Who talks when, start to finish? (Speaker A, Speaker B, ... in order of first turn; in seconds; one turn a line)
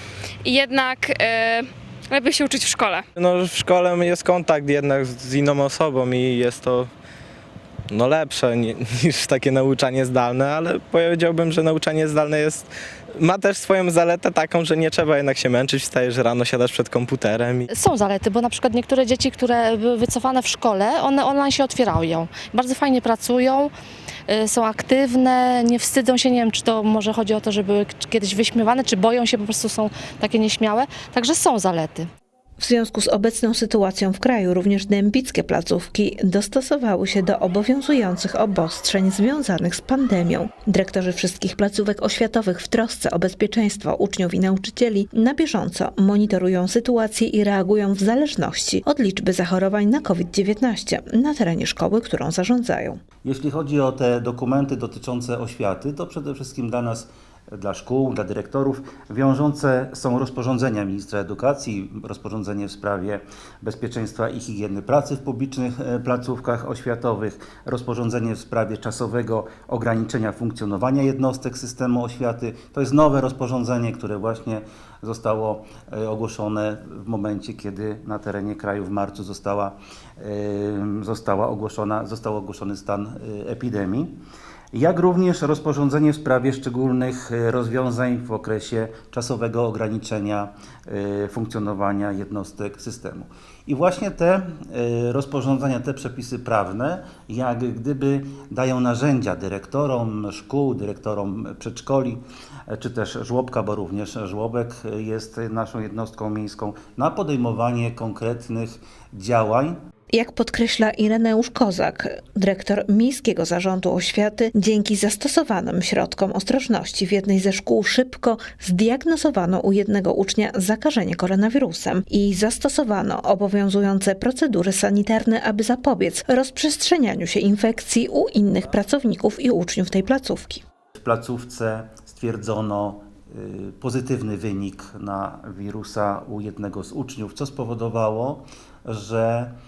Speaker A: 0.4-3.0
Speaker B: 3.2-6.9
Speaker B: 7.9-17.6
Speaker C: 17.7-23.7
Speaker C: 24.3-32.1
Speaker D: 32.6-53.0
Speaker E: 53.2-84.2
Speaker E: 84.7-109.8
Speaker D: 110.1-130.6
Speaker E: 130.9-139.5